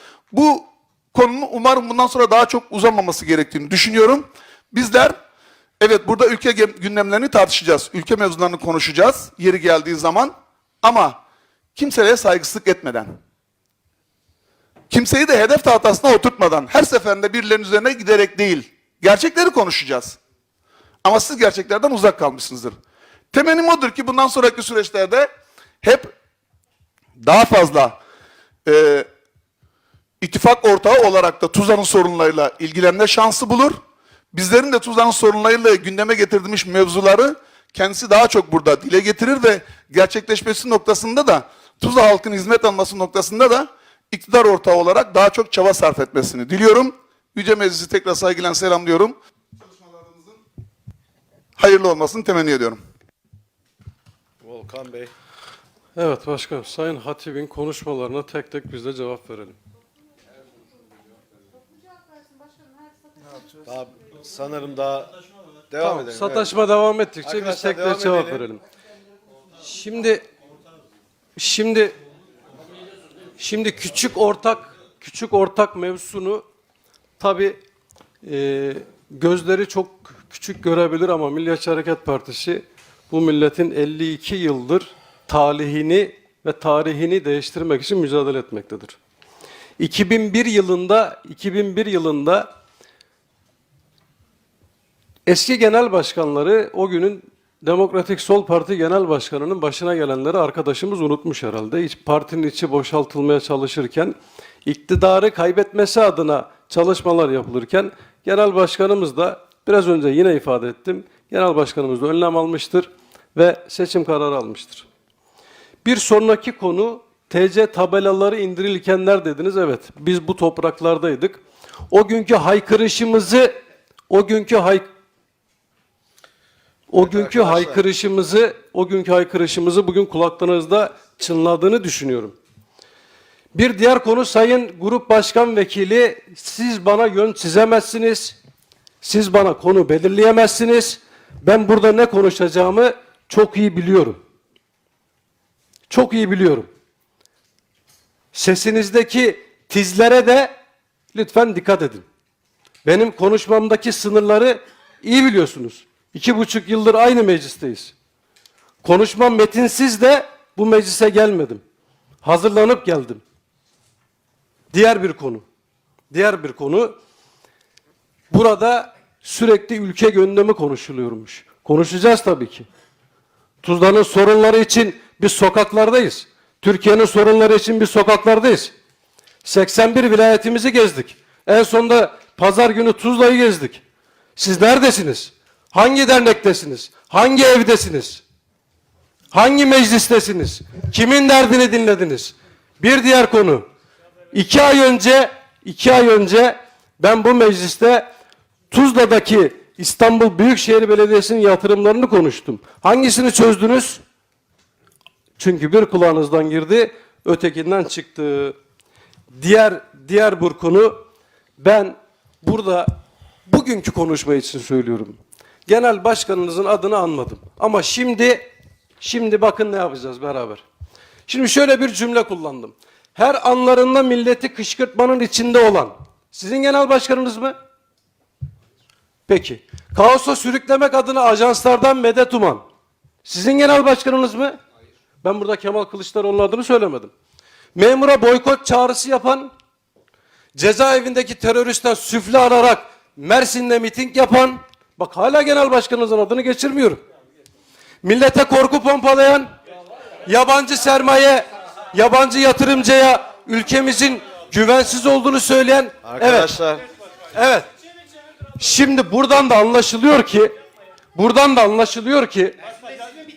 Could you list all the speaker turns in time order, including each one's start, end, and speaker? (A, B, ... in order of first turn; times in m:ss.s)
0:00.3-0:05.1 A
0:05.8-0:11.2 A
0:11.7-0:13.1 A
0:14.9-0:20.2 A
0:21.0-0:22.7 A
0:23.3-0:25.3 A
0:25.8-0:26.1 A
0:27.2-0:28.0 A
0:28.6-0:29.1 A
0:30.2-0:33.8 A
0:34.3-0:49.1 A
0:49.9-0:50.2 A
0:51.6-0:52.8 A
0:54.4-0:55.1 B
0:56.0-0:59.6 C
1:03.6-1:05.1 B
1:05.7-1:06.5 B
1:05.8-1:08.6 C
1:07.2-1:08.4 B
1:09.6-1:10.2 C
1:11.4-1:12.0 C
1:13.4-1:16.4 C
1:17.2-1:17.6 C
1:18.2-1:29.0 C
1:29.8-1:32.5 C
1:35.2-1:54.8 C
1:55.8-2:03.6 C
2:04.1-2:04.8 C
2:06.9-2:12.3 C
2:07.0-2:07.8 B
2:13.5-2:18.4 C
2:19.0-2:24.2 C
2:25.9-2:26.7 C
2:28.3-2:30.5 C
2:31.1-2:32.0 C
2:32.8-2:37.9 C
2:38.8-2:41.6 C
2:42.2-2:43.2 C
2:44.7-2:45.4 C
2:46.1-2:46.9 C
2:48.3-2:52.6 C
2:53.6-2:58.7 C
2:59.4-3:03.8 C
3:04.4-3:08.2 C
3:09.3-3:13.6 C
3:14.3-3:18.0 C
3:18.7-3:24.0 C
3:25.4-3:28.5 C
3:29.3-3:30.9 C
3:31.6-3:32.9 C
3:33.4-3:35.2 C
3:35.7-3:38.4 C
3:39.0-3:40.6 C
3:41.3-3:47.5 C
3:49.3-3:52.6 C
3:53.2-3:54.6 C
3:55.2-3:57.1 C
3:57.7-3:59.5 C
4:00.5-4:07.0 C
4:08.0-4:09.5 C
4:10.2-4:16.6 C
4:16.0-4:16.8 B
4:17.3-4:17.7 C
4:18.6-4:20.5 C
4:21.1-4:22.6 C